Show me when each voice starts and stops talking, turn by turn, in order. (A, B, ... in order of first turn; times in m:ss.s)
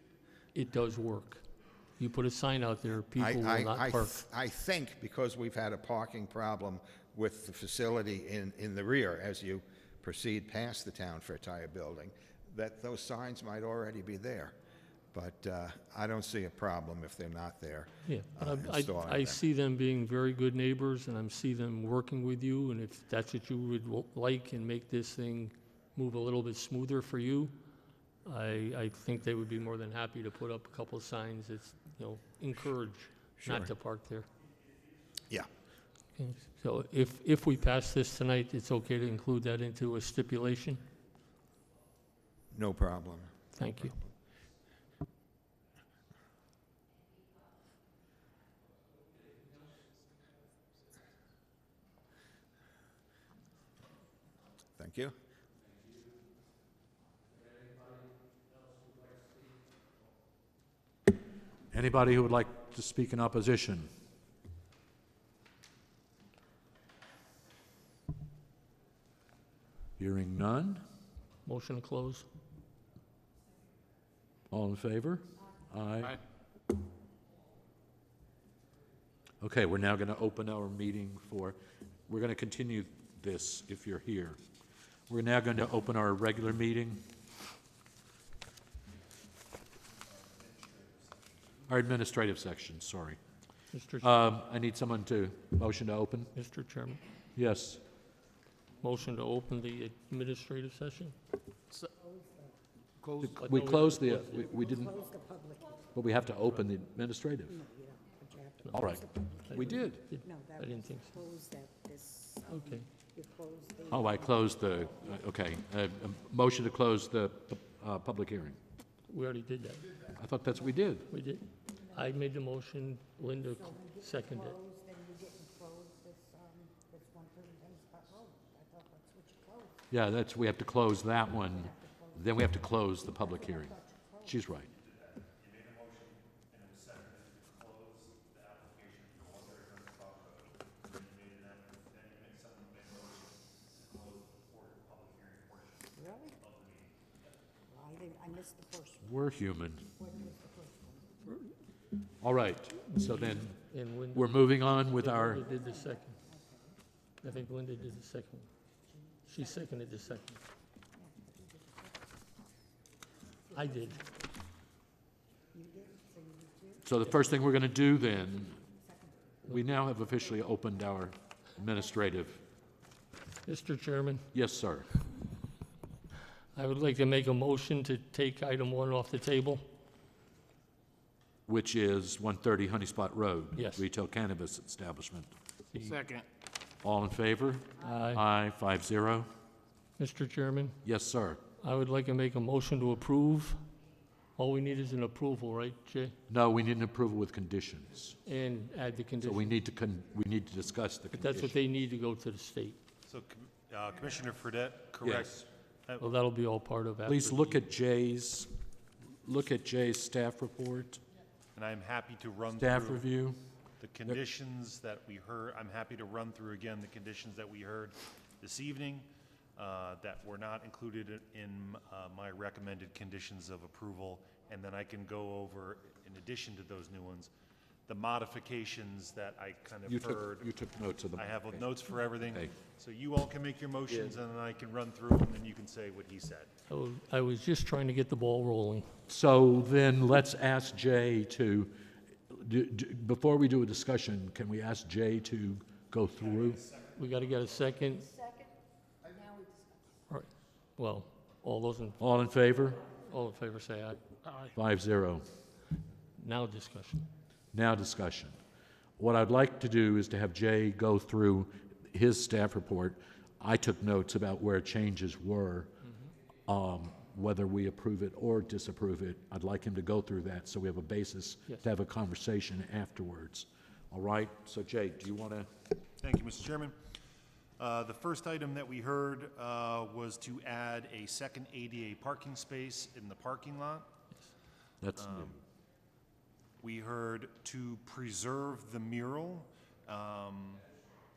0:00.5-0:01.4 A
0:02.0-0:04.2 A
0:03.2-0:14.5 B
0:15.1-0:19.4 B
0:18.0-0:27.5 A
0:28.2-0:34.3 A
0:33.4-0:33.7 B
0:36.2-0:40.8 A
0:42.5-0:43.3 B
0:43.6-0:44.0 A
0:54.8-0:55.1 B
1:01.7-1:03.9 C
1:10.0-1:10.8 C
1:11.4-1:12.3 A
1:14.5-1:16.2 C
1:19.4-1:21.6 C
1:22.1-1:24.4 C
1:25.1-1:27.0 C
1:30.0-1:31.6 D
1:31.7-1:33.2 C
1:33.7-1:34.2 A
1:34.0-1:36.3 C
1:36.3-1:37.0 A
1:37.4-1:37.8 C
1:38.8-1:41.1 A
1:42.0-1:42.3 E
1:43.2-1:45.1 C
1:43.4-1:44.4 A
1:45.0-1:45.8 E
1:45.9-1:47.6 C
1:47.8-1:48.6 E
1:48.7-1:50.0 C
1:49.5-1:51.1 A
1:51.1-1:52.4 E
1:52.5-1:52.9 A
1:53.1-1:53.8 E
1:53.9-1:58.6 C
1:59.1-1:59.8 A
2:00.2-2:01.1 C
2:01.1-2:04.6 A
2:04.6-2:09.7 E
2:09.9-2:14.7 C
2:14.7-2:26.9 D
2:27.8-2:29.0 E
2:29.0-2:29.9 C
2:30.1-2:31.0 E
2:32.2-2:33.6 C
2:32.9-2:34.3 A
2:34.1-2:35.4 C
2:34.9-2:36.1 A
2:36.3-2:36.6 E
2:37.2-2:38.5 A
2:39.3-2:40.4 A
2:41.2-2:41.6 E
2:43.5-2:44.0 A
2:45.6-2:46.8 E
2:46.8-2:48.6 C
2:49.4-2:52.4 C
2:53.4-2:54.3 A
2:54.3-2:54.9 C
2:56.5-2:59.6 A
3:01.5-3:05.3 C
3:03.6-3:03.8 A
3:05.7-3:06.0 A
3:06.8-3:09.3 C
3:07.8-3:08.2 A
3:10.0-3:10.8 A
3:10.8-3:11.4 C
3:11.6-3:13.6 A
3:14.4-3:16.1 A
3:16.3-3:18.2 C
3:18.2-3:19.5 A
3:19.2-3:21.5 C
3:21.1-3:22.8 A
3:23.1-3:26.1 D
3:25.0-3:25.3 C
3:26.0-3:27.6 A
3:27.0-3:28.5 C
3:29.2-3:31.0 C
3:31.5-3:33.1 D
3:32.5-3:33.4 C
3:33.8-3:47.3 D
3:47.9-3:50.5 D
3:49.8-3:51.7 C
3:51.2-3:56.5 D
3:52.2-3:52.5 C
3:53.9-3:54.2 C
3:56.7-3:58.9 A
3:59.1-4:01.7 C
4:02.3-4:06.6 C
4:06.2-4:07.4 D
4:07.0-4:08.1 A
4:10.1-4:12.0 A
4:12.0-4:12.8 C
4:13.0-4:14.0 A
4:14.5-4:15.2 C
4:16.2-4:17.1 A
4:17.5-4:18.4 C
4:19.0-4:25.7 C
4:26.5-4:35.5 C
4:36.0-4:36.8 D
4:37.6-4:43.9 D
4:44.8-4:45.3 C
4:44.9-4:45.4 D
4:46.6-4:50.6 D